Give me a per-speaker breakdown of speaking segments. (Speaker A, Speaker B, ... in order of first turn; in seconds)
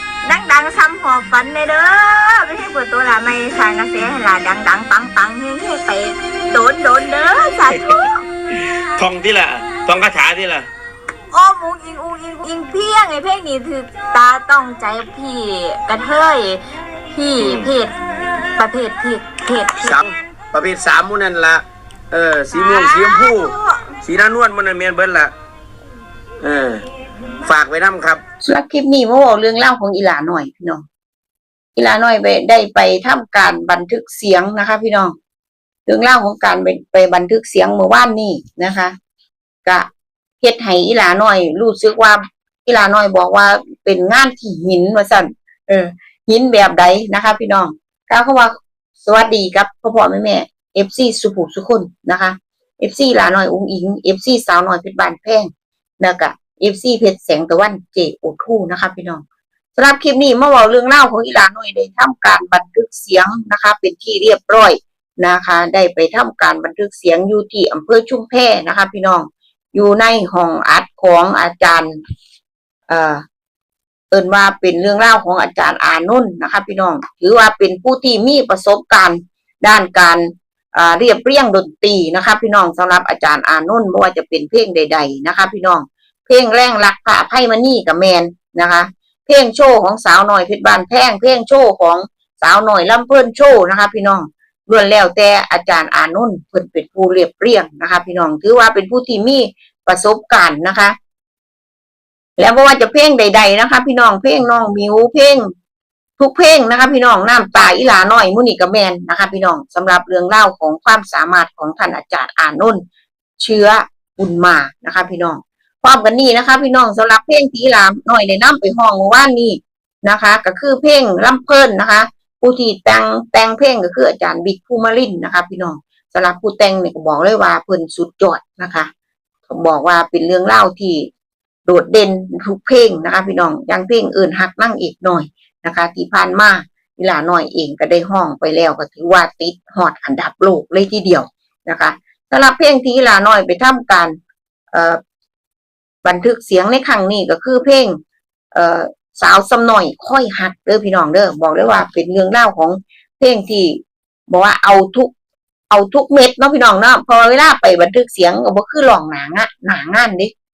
Speaker A: 0.2-8.2, 11.3-17.9, 18.6-20.0, 22.5-23.9
Speaker B: 8.9-10.7, 17.4-17.7, 19.8-25.3, 26.4-26.8, 27.4-28.2
Speaker C: 28.4-30.8, 31.8-35.1, 35.9-38.9, 40.4-48.5, 49.0-55.5, 56.0-59.2, 59.8-71.9, 72.9-73.2, 74.1-100.9, 102.4-105.5, 106.2-112.8, 113.4-128.9, 129.5-131.1, 131.7-144.1, 144.7-145.0, 146.0-147.9, 148.5-155.1, 155.7-160.3